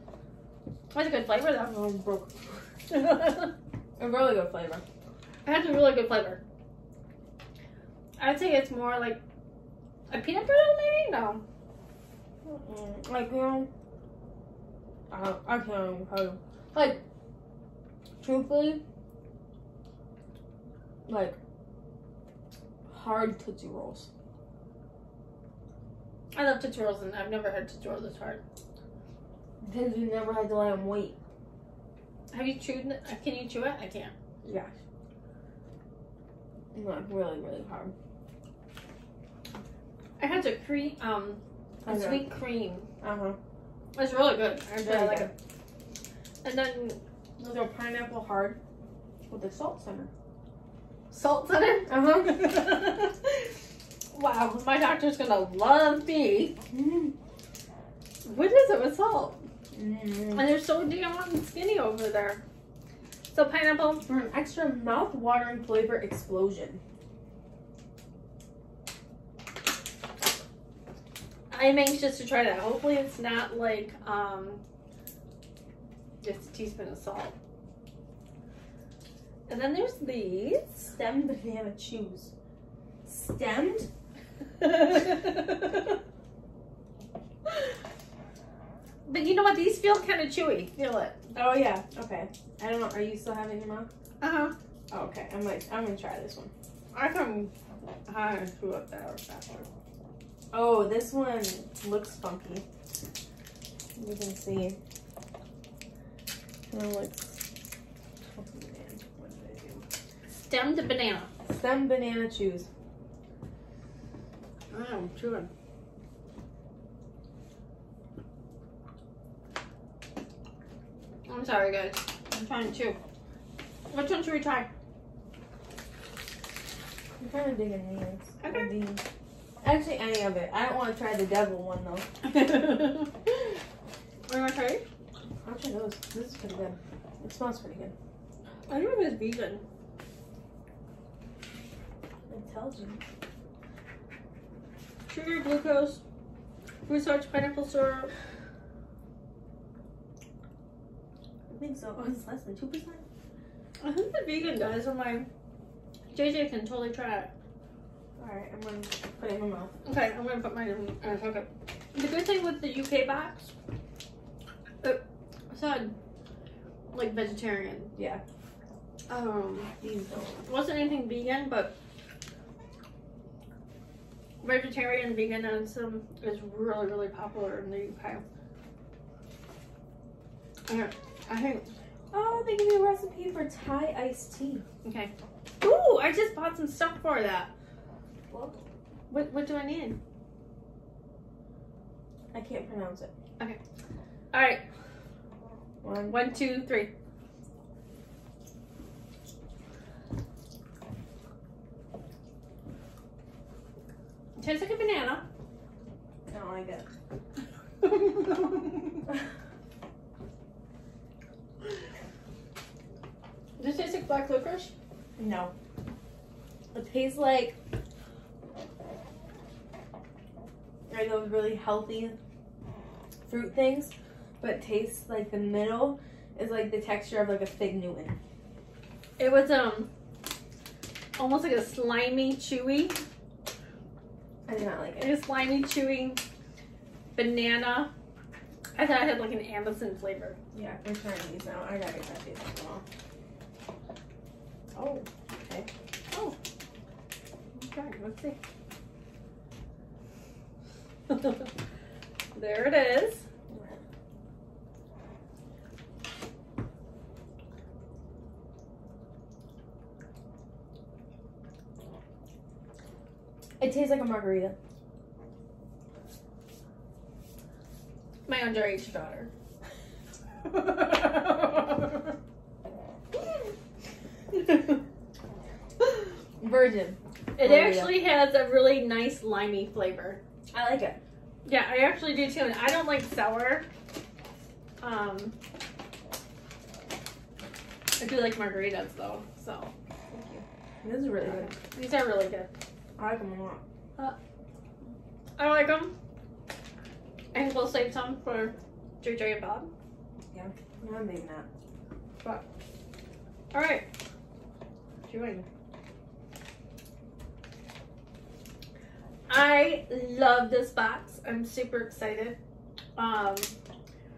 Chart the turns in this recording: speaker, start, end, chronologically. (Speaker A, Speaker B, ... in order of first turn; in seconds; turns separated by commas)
Speaker A: 0.9-1.8, Speaker B: 1.6-2.6, Speaker A: 2.9-3.5, Speaker B: 4.0-4.8, Speaker A: 5.4-6.4, Speaker A: 8.2-9.2, Speaker A: 10.1-11.4, Speaker B: 12.4-13.7, Speaker B: 15.1-17.0, Speaker B: 18.2-18.8, Speaker B: 21.1-21.4, Speaker B: 22.9-24.1, Speaker A: 26.3-28.4, Speaker B: 29.6-31.1, Speaker A: 32.3-34.1, Speaker B: 34.4-34.7, Speaker B: 36.7-37.9, Speaker A: 40.2-42.9, Speaker B: 41.8-42.2, Speaker B: 43.0-43.4, Speaker A: 43.9-45.3, Speaker B: 44.8-45.3, Speaker A: 46.4-47.0, Speaker B: 47.4-48.6, Speaker B: 49.3-50.1, Speaker A: 51.1-53.3, Speaker B: 51.9-52.9, Speaker A: 54.1-56.6, Speaker B: 56.7-57.1, Speaker A: 58.2-59.4, Speaker B: 59.7-60.5, Speaker A: 60.3-62.4, Speaker A: 63.3-64.0, Speaker B: 64.0-66.8, Speaker A: 71.5-74.6, Speaker A: 76.2-77.3, Speaker A: 79.5-80.9, Speaker B: 80.9-82.3, Speaker B: 83.0-83.9, Speaker A: 84.6-85.9, Speaker A: 89.0-91.2, Speaker B: 91.3-93.9, Speaker A: 94.2-94.5, Speaker B: 94.9-96.5, Speaker A: 96.9-97.5, Speaker A: 98.1-99.7, Speaker B: 100.5-102.6, Speaker B: 104.0-104.8, Speaker B: 106.7-107.4, Speaker B: 108.3-109.8, Speaker A: 110.3-111.3, Speaker B: 111.5-112.7, Speaker A: 114.7-115.5, Speaker A: 121.3-123.0, Speaker A: 123.9-124.7, Speaker B: 127.2-129.0, Speaker A: 128.4-128.7, Speaker B: 129.6-132.1, Speaker A: 132.2-133.4, Speaker A: 134.3-134.8, Speaker B: 135.4-137.9, Speaker A: 138.7-139.6, Speaker B: 142.3-143.0, Speaker A: 145.1-146.0, Speaker A: 146.8-148.1, Speaker B: 151.5-153.0, Speaker A: 153.8-155.3, Speaker A: 156.1-157.3, Speaker B: 158.2-159.7, Speaker A: 159.8-163.5, Speaker A: 164.8-165.9, Speaker A: 166.9-167.9, Speaker B: 167.9-168.2, Speaker A: 169.1-169.7, Speaker B: 169.8-170.4, Speaker A: 170.4-171.7, Speaker A: 174.4-178.2, Speaker A: 180.7-181.7, Speaker B: 182.1-184.6, Speaker A: 184.8-187.5, Speaker B: 188.3-188.6, Speaker A: 189.1-190.0, Speaker B: 192.3-193.1, Speaker A: 194.3-194.6, Speaker B: 195.8-196.3, Speaker A: 196.1-196.9, Speaker A: 204.3-205.2, Speaker B: 206.3-206.8, Speaker A: 207.8-209.1, Speaker A: 213.6-214.7, Speaker B: 215.2-215.5, Speaker B: 216.7-217.6, Speaker B: 220.9-222.2, Speaker B: 223.2-228.2, Speaker A: 229.2-229.9, Speaker A: 231.2-233.0, Speaker B: 234.5-235.1, Speaker A: 235.0-236.2, Speaker A: 237.1-237.9, Speaker A: 238.8-240.4, Speaker B: 240.5-242.8, Speaker B: 244.7-245.7, Speaker A: 246.1-246.3, Speaker A: 247.5-248.4, Speaker A: 251.1-251.5, Speaker A: 252.3-253.2, Speaker B: 253.5-253.8, Speaker B: 263.6-264.6, Speaker A: 268.3-269.3, Speaker A: 270.4-272.1, Speaker B: 276.4-278.1, Speaker A: 277.4-280.2, Speaker B: 280.5-281.0, Speaker A: 281.4-283.6, Speaker A: 284.8-285.3, Speaker A: 288.0-289.7, Speaker B: 290.1-291.5, Speaker A: 291.2-292.5, Speaker B: 293.0-293.6, Speaker A: 295.4-295.9, Speaker A: 297.3-299.7, Speaker B: 300.3-301.5, Speaker A: 303.5-303.9, Speaker A: 305.0-305.4, Speaker A: 309.3-312.4, Speaker A: 313.0-313.5